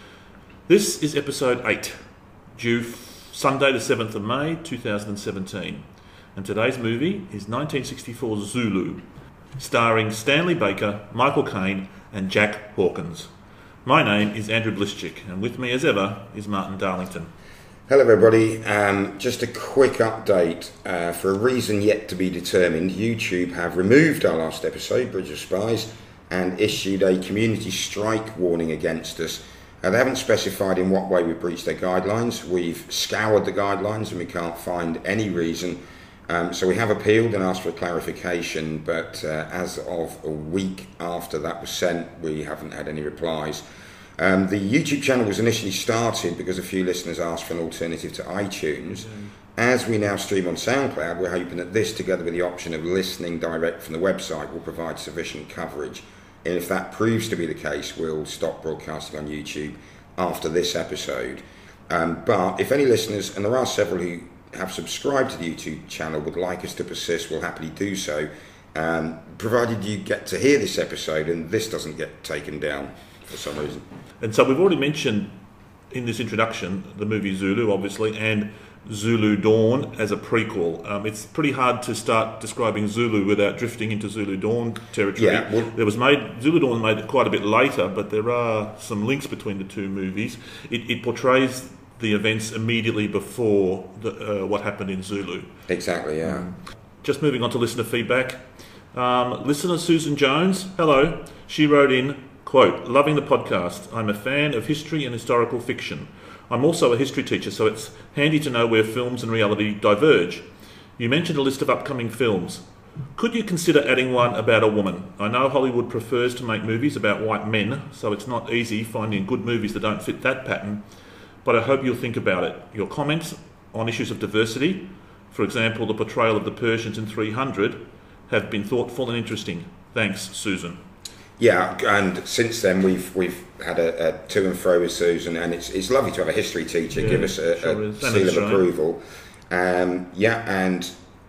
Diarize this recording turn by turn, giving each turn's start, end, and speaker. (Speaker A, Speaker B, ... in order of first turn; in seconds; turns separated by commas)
Speaker A: 0.7-2.0, Speaker A: 2.6-5.8, Speaker A: 6.4-9.1, Speaker A: 9.6-13.3, Speaker A: 13.8-17.3, Speaker B: 17.9-43.6, Speaker B: 44.2-73.9, Speaker A: 48.9-49.3, Speaker A: 74.2-75.4, Speaker A: 75.9-95.5, Speaker B: 85.2-85.7, Speaker B: 95.7-96.5, Speaker A: 96.2-110.5, Speaker A: 111.0-112.7, Speaker A: 113.2-120.9, Speaker A: 121.4-130.8, Speaker B: 131.4-140.9, Speaker A: 136.9-138.7